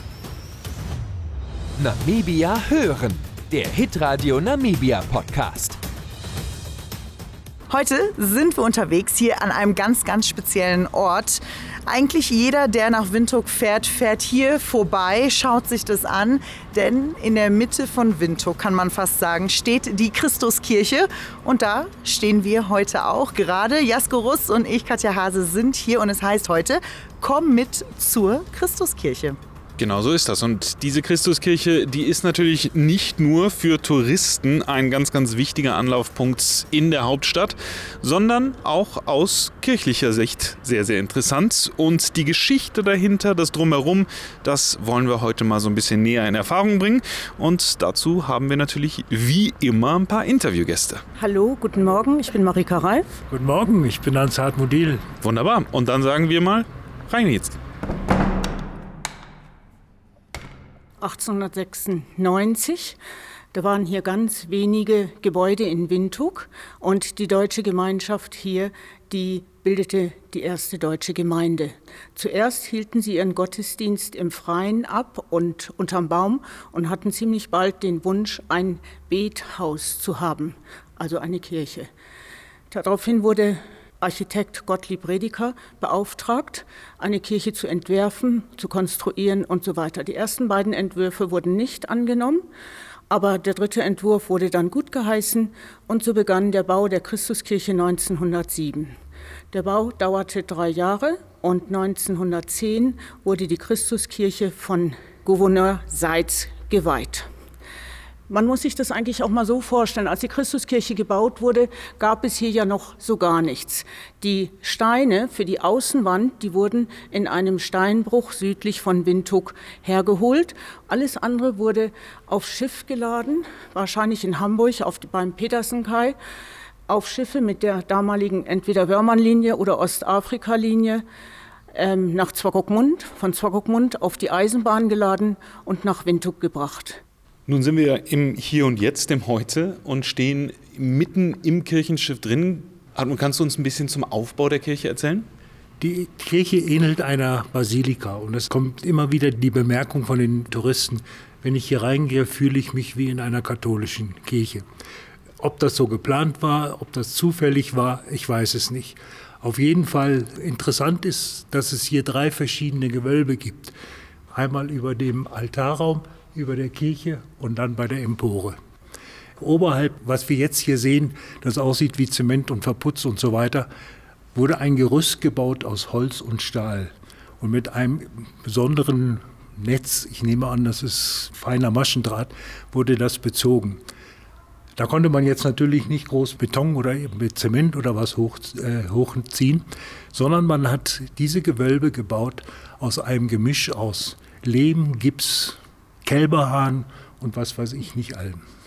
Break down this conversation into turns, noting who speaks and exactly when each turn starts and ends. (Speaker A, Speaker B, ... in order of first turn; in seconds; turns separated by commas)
Speaker A: 1.8-5.8, Speaker B: 7.7-29.4, Speaker C: 29.8-51.0, Speaker D: 51.2-53.1, Speaker E: 53.3-55.0, Speaker C: 55.2-57.6, Speaker D: 61.0-63.0, Speaker D: 63.5-81.9, Speaker D: 82.7-92.4, Speaker D: 93.1-99.0, Speaker D: 99.5-107.3, Speaker D: 108.3-126.2, Speaker D: 126.9-131.0, Speaker D: 131.7-137.0, Speaker C: 137.5-145.3, Speaker E: 145.8-154.6, Speaker E: 155.4-163.7, Speaker E: 164.3-168.6, Speaker E: 169.4-173.7, Speaker E: 174.3-183.8, Speaker E: 184.8-198.4